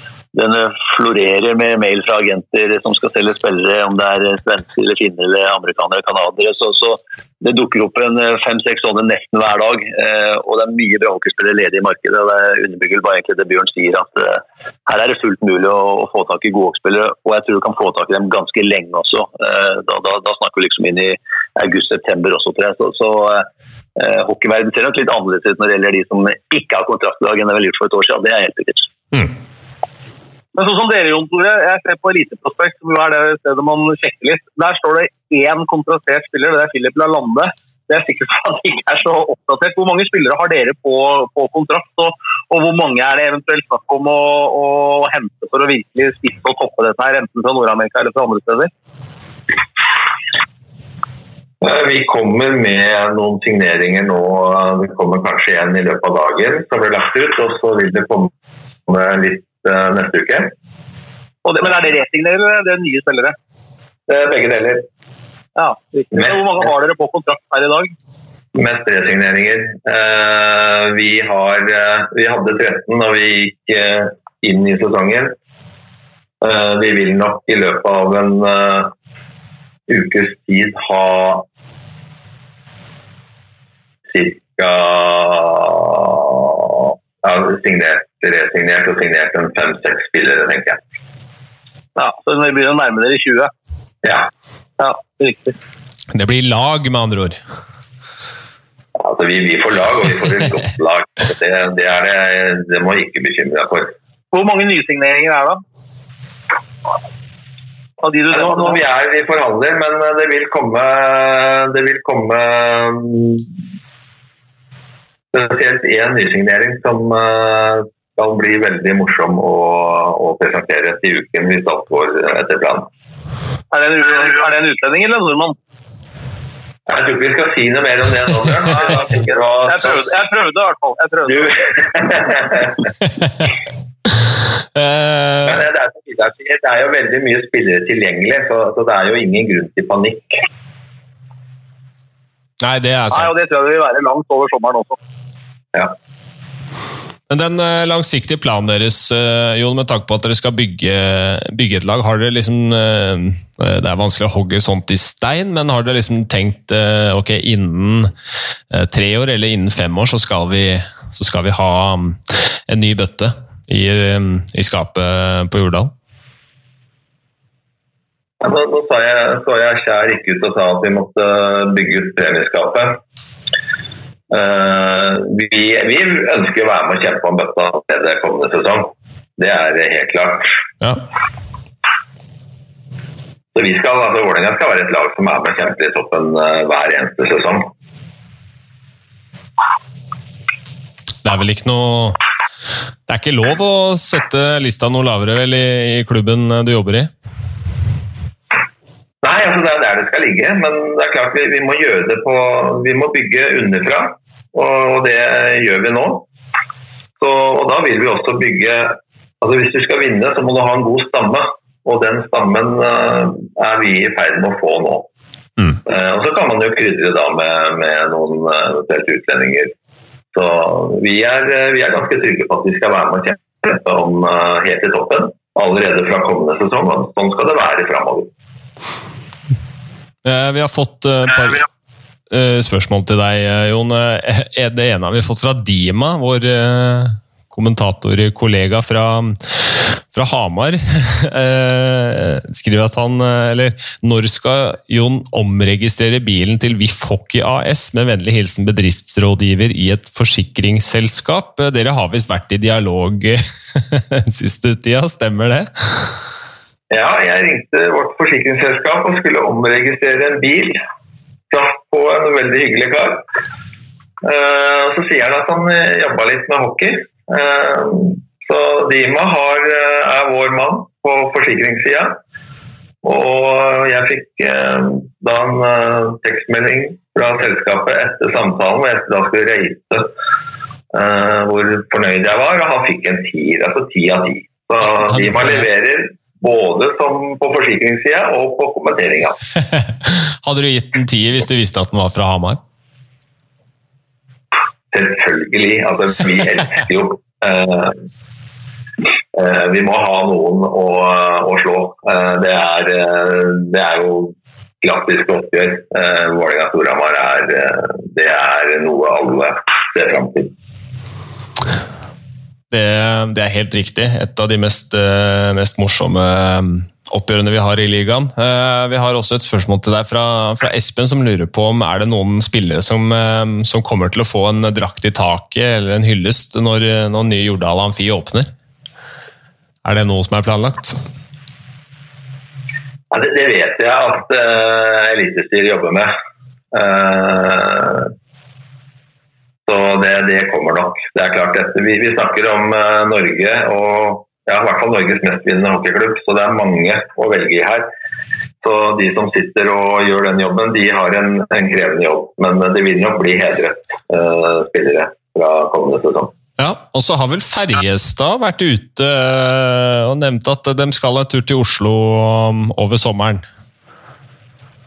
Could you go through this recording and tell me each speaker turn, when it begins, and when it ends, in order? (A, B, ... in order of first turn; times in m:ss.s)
0:00.3-0:28.9 A
0:30.6-0:48.7 B
0:51.6-0:58.3 C
0:58.9-1:00.5 C
1:01.4-1:03.4 B
1:04.1-1:04.8 C
1:05.6-1:07.9 B
1:08.6-1:15.4 C
1:16.4-1:18.9 C
1:19.9-1:21.4 C
1:24.1-1:30.8 C
1:32.0-1:33.5 B
1:34.0-1:34.3 C
1:34.8-1:35.6 B
1:36.1-1:37.4 D
1:39.0-1:43.9 C
1:44.3-1:45.6 B
1:48.0-1:48.8 B
1:48.3-1:53.4 C
1:55.3-2:02.9 C
2:03.7-2:05.6 B
2:06.9-2:10.0 C
2:09.6-2:11.8 B
2:11.4-2:12.8 C
2:14.8-2:15.7 D
2:15.5-2:20.4 C
2:22.6-2:23.4 D
2:23.1-2:25.0 B
2:27.3-2:38.1 D
2:38.7-2:45.9 D
2:48.4-2:53.0 C
2:54.3-3:00.6 C
3:03.6-3:07.7 C
3:11.2-3:12.2 D
3:13.1-3:17.1 D
3:19.2-3:26.2 C
3:27.2-3:35.1 C
3:35.8-3:39.7 C
3:40.3-3:48.3 C
3:50.2-3:51.7 D
3:52.3-4:16.2 D
4:16.9-4:20.8 C
4:21.5-4:23.2 C
4:24.2-4:32.2 C
4:33.0-4:40.1 C
4:40.9-4:49.4 C
4:45.1-4:45.6 D
4:49.8-4:52.6 D
4:54.9-4:58.0 C
4:59.3-5:10.5 C
5:12.7-5:28.5 D
5:29.8-5:31.0 D
5:33.1-5:36.1 C
5:36.7-5:38.1 C
5:39.7-5:47.9 C
5:48.6-5:56.3 C
5:56.6-6:03.4 D